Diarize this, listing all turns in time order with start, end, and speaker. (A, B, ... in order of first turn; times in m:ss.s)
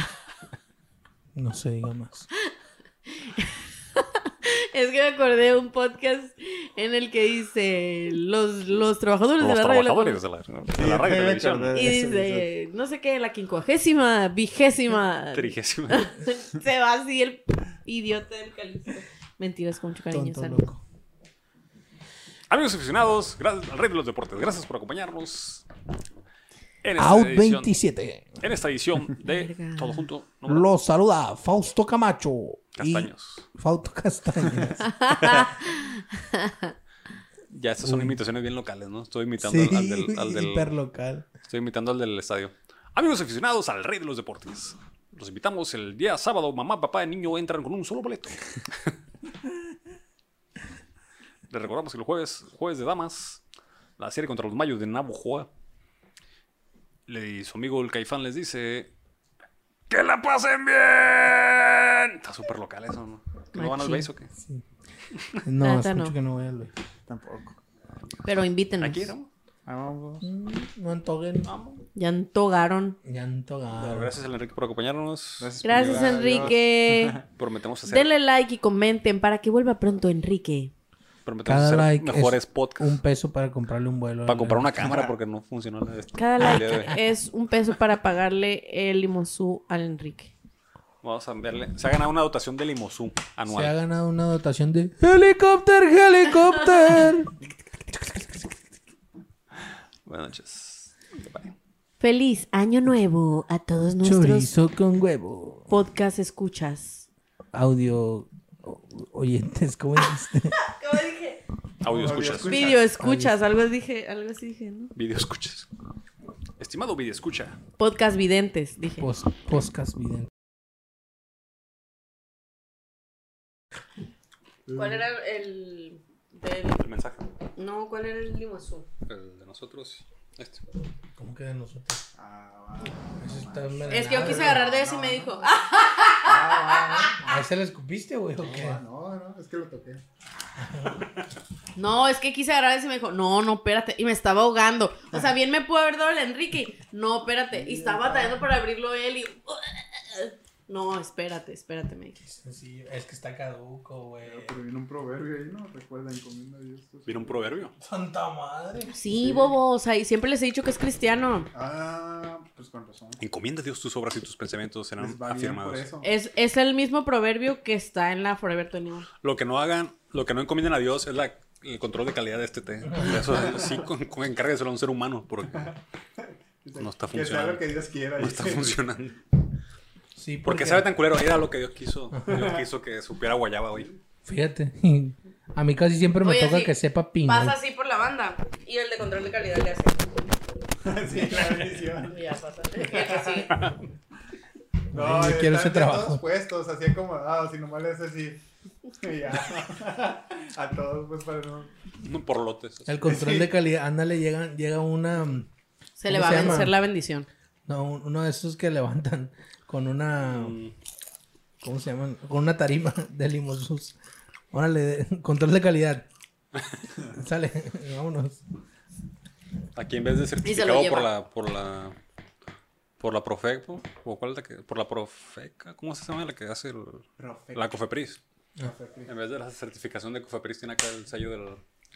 0:01.3-0:02.3 A
0:03.1-0:10.2 B
0:09.4-0:11.8 C
0:10.7-0:12.5 D
0:11.7-0:20.7 B
0:15.3-0:16.1 C
0:20.1-0:20.8 A
0:22.5-0:25.6 C
0:26.8-0:27.8 C
0:27.0-0:28.4 A
0:28.4-0:30.6 C
0:29.2-0:30.0 B
0:30.5-0:35.4 A
0:32.8-0:33.5 C
0:34.8-0:36.7 B
0:35.1-0:35.5 C
0:37.5-0:40.7 C
0:37.8-0:38.2 A
0:39.4-0:41.3 A
0:41.5-0:48.9 C
0:51.5-0:53.4 C
0:54.0-0:55.5 C
0:57.1-0:58.9 C
0:59.9-1:04.3 C
1:03.5-1:04.1 B
1:04.3-1:04.6 A
1:05.3-1:06.7 A
1:05.6-1:06.1 B
1:07.1-1:07.6 D
1:08.2-1:09.1 B
1:08.8-1:09.3 C
1:09.6-1:10.3 D
1:10.2-1:11.5 A
1:11.4-1:11.8 C
1:11.9-1:13.0 B
1:13.0-1:14.1 A
1:13.7-1:16.5 C
1:15.4-1:17.2 D
1:15.6-1:17.2 B
1:17.4-1:18.1 C
1:17.9-1:20.7 B
1:21.2-1:23.0 C
1:21.4-1:24.7 A
1:24.2-1:27.0 C
1:26.2-1:30.3 B
1:31.0-1:33.8 C
1:33.5-1:38.6 A
1:40.0-1:41.5 C
1:42.0-1:44.5 B
1:44.0-1:45.7 A
1:45.7-1:47.0 B
1:47.5-1:50.6 A
1:50.6-1:51.4 B
1:51.8-1:52.6 C
1:51.9-1:52.9 D
1:52.4-1:54.9 B
1:52.9-1:53.4 A
1:54.9-1:55.7 C
1:56.6-1:57.6 C
1:57.8-1:59.1 B
1:59.0-2:00.3 A
2:04.6-2:05.0 D
2:04.7-2:06.8 B
2:06.8-2:07.2 C
2:07.6-2:08.9 B
2:09.1-2:10.6 C
2:11.2-2:12.0 A
2:12.2-2:15.4 D
2:13.2-2:14.6 A
2:13.9-2:17.3 B
2:16.2-2:17.2 D
2:17.2-2:18.8 A
2:18.4-2:20.0 D
2:20.6-2:21.0 A
2:21.8-2:32.2 B
2:27.5-2:28.3 D
2:32.2-2:34.6 A
2:34.2-2:37.3 D
2:37.0-2:37.7 C
2:37.8-2:38.9 A
2:38.9-2:41.5 B
2:39.2-2:39.5 D
2:41.5-2:43.2 D
2:43.2-2:45.8 C
2:45.0-2:46.1 D
2:46.0-2:49.1 B
2:49.2-2:55.8 C
2:52.9-2:53.2 A
2:53.3-2:53.8 D
2:55.6-2:58.8 D
2:56.8-2:57.6 C
2:58.2-2:59.2 C
3:00.2-3:00.9 A
3:00.4-3:03.9 C
3:02.1-3:02.5 A
3:02.3-3:02.6 D
3:04.2-3:07.6 A
3:06.2-3:06.7 B
3:07.2-3:10.2 B
3:10.8-3:12.2 D
3:12.1-3:13.6 B
3:13.1-3:13.4 D
3:13.4-3:13.9 C
3:14.9-3:16.2 A
3:14.9-3:18.4 D
3:19.0-3:21.7 D
3:22.0-3:23.1 C
3:22.9-3:25.5 A
3:23.1-3:23.5 D
3:26.0-3:27.3 B
3:26.1-3:26.8 A
3:27.7-3:30.6 A
3:30.2-3:30.7 C
3:31.6-3:33.9 A
3:34.5-3:36.1 A
3:37.0-3:38.4 A
3:39.7-3:42.0 C
3:40.4-3:41.1 B
3:43.0-3:48.2 C
3:47.2-3:47.6 D
3:48.6-3:49.1 D
3:49.0-3:51.6 C